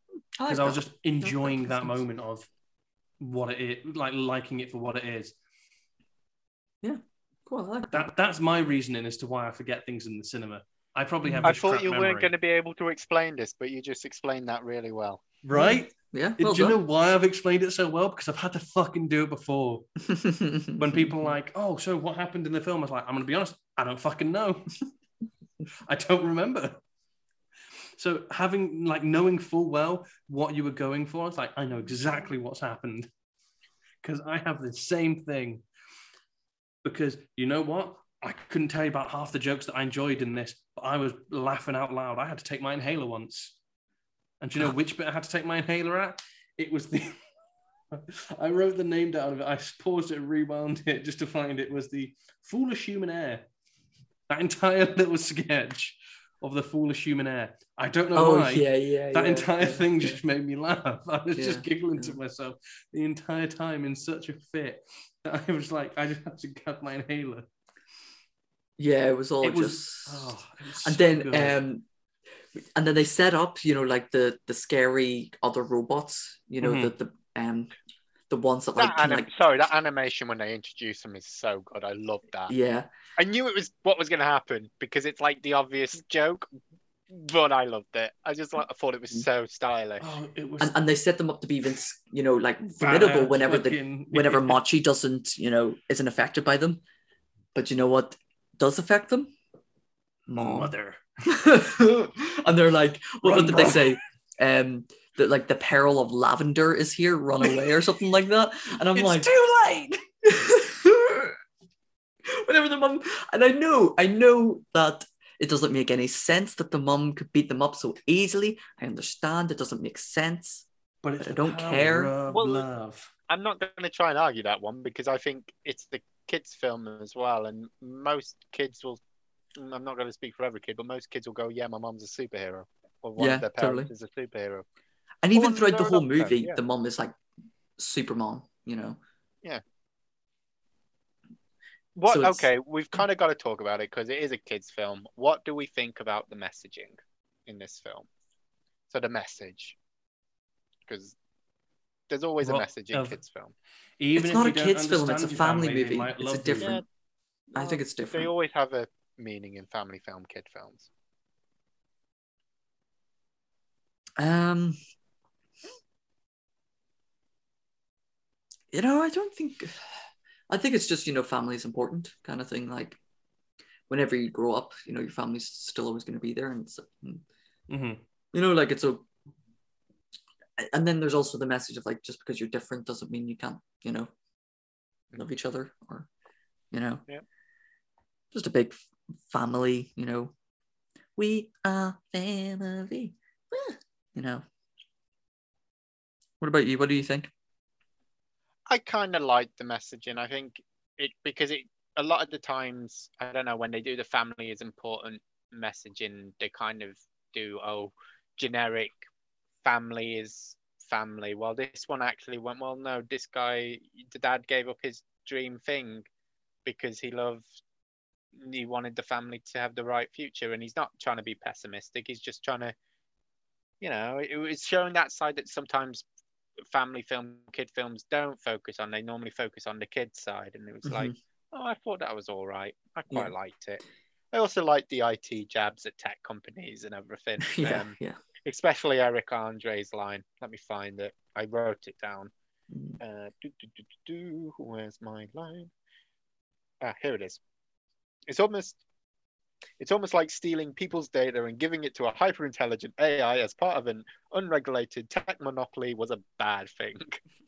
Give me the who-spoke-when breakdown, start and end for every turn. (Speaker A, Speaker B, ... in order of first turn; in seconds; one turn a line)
Speaker A: 0.4-2.0
Speaker B: 0.5-2.5
Speaker B: 3.2-5.4
Speaker A: 6.8-8.1
Speaker B: 7.9-12.3
Speaker A: 11.2-11.5
Speaker C: 11.4-15.2
Speaker B: 15.4-19.9
Speaker A: 15.5-16.8
Speaker A: 20.0-21.4
Speaker B: 20.8-24.8
Speaker B: 25.9-26.8
Speaker B: 28.0-33.1
Speaker B: 34.0-35.6
Speaker B: 36.8-43.6
Speaker B: 44.4-47.2
Speaker B: 47.9-53.5
Speaker B: 54.3-67.5
Speaker A: 58.1-60.2
Speaker A: 61.4-62.2
Speaker A: 68.8-70.3
Speaker B: 69.4-71.6
Speaker A: 70.8-71.8
Speaker A: 72.6-77.7
Speaker B: 76.6-76.9
Speaker A: 78.3-79.3
Speaker C: 78.8-82.5
Speaker A: 82.5-82.9
Speaker C: 83.2-86.5
Speaker C: 87.1-90.0
Speaker B: 90.0-90.8
Speaker A: 90.6-96.8
Speaker B: 92.7-94.6
Speaker A: 97.5-99.3
Speaker A: 100.3-100.7
Speaker B: 100.3-101.0
Speaker A: 101.2-111.4
Speaker B: 103.2-104.0
Speaker B: 108.9-109.3
Speaker A: 112.3-120.7
Speaker B: 121.0-123.1
Speaker A: 121.2-122.1
Speaker C: 122.3-122.7
Speaker C: 123.3-129.0
Speaker C: 129.6-134.7
Speaker A: 133.2-133.9
Speaker A: 135.2-137.2
Speaker C: 135.3-136.6
Speaker A: 137.8-139.0
Speaker C: 142.0-148.1
Speaker A: 142.1-142.5
Speaker C: 148.9-149.8
Speaker C: 150.9-151.2
Speaker C: 152.1-153.5
Speaker B: 152.4-153.2
Speaker B: 154.0-156.8
Speaker A: 154.2-156.8
Speaker C: 156.6-156.8
Speaker C: 157.5-160.9
Speaker A: 157.6-158.3
Speaker A: 164.2-164.8
Speaker A: 168.7-169.8
Speaker A: 170.5-173.0
Speaker A: 173.9-177.2
Speaker B: 177.7-178.0
Speaker A: 178.3-179.1
Speaker A: 180.6-184.1
Speaker A: 185.2-186.1
Speaker A: 186.7-187.0
Speaker A: 188.3-188.8
Speaker A: 189.3-190.3
Speaker A: 191.2-194.4
Speaker A: 196.4-197.3
Speaker C: 198.7-209.0
Speaker C: 209.6-216.1
Speaker C: 216.7-217.5
Speaker C: 218.4-222.8
Speaker C: 223.8-226.1
Speaker C: 226.7-233.8
Speaker A: 230.8-231.2
Speaker C: 234.3-237.9
Speaker A: 237.4-238.2
Speaker C: 238.4-242.3
Speaker A: 242.7-243.0
Speaker C: 243.0-245.7
Speaker C: 246.8-247.4
Speaker C: 248.3-248.8
Speaker C: 249.8-257.2